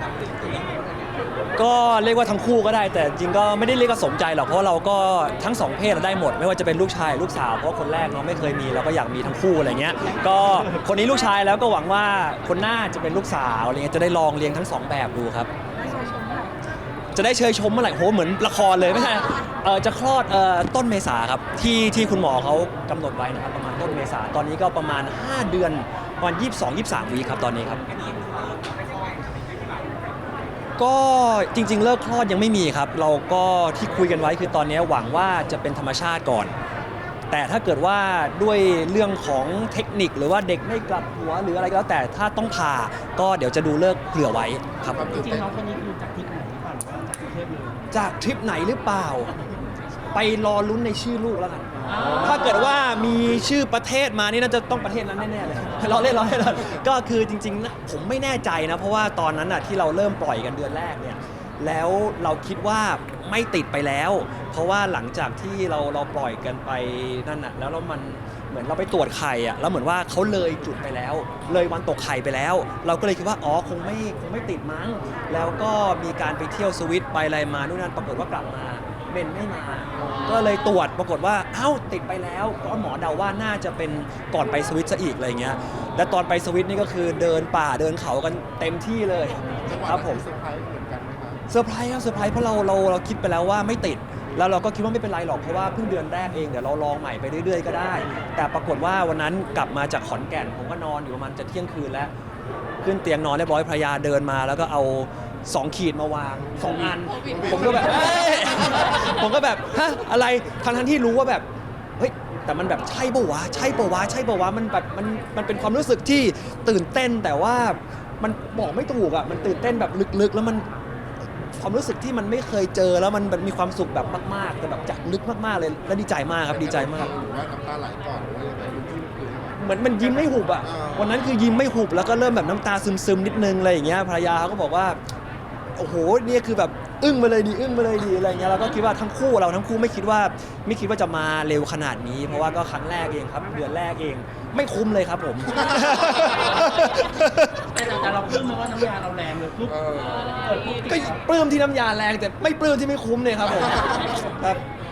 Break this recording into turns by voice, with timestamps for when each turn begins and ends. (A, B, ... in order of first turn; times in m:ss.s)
0:01.6-0:16.0 A
0:17.1-0:27.8 A
0:30.8-0:36.5 A
0:37.3-0:45.4 A
0:45.0-0:45.4 B
0:45.3-0:47.8 C
0:47.9-0:49.4 A
0:50.1-1:30.3 A
1:29.7-1:31.4 B
1:31.5-1:42.1 A
1:42.8-1:51.4 A
1:52.0-2:00.6 A
2:01.5-2:07.1 A
2:06.7-2:09.6 B
2:09.6-2:15.0 A
2:15.7-2:27.6 A
2:27.8-2:29.8 C
2:29.7-2:30.4 B
2:30.3-2:30.8 C
2:30.7-2:34.6 A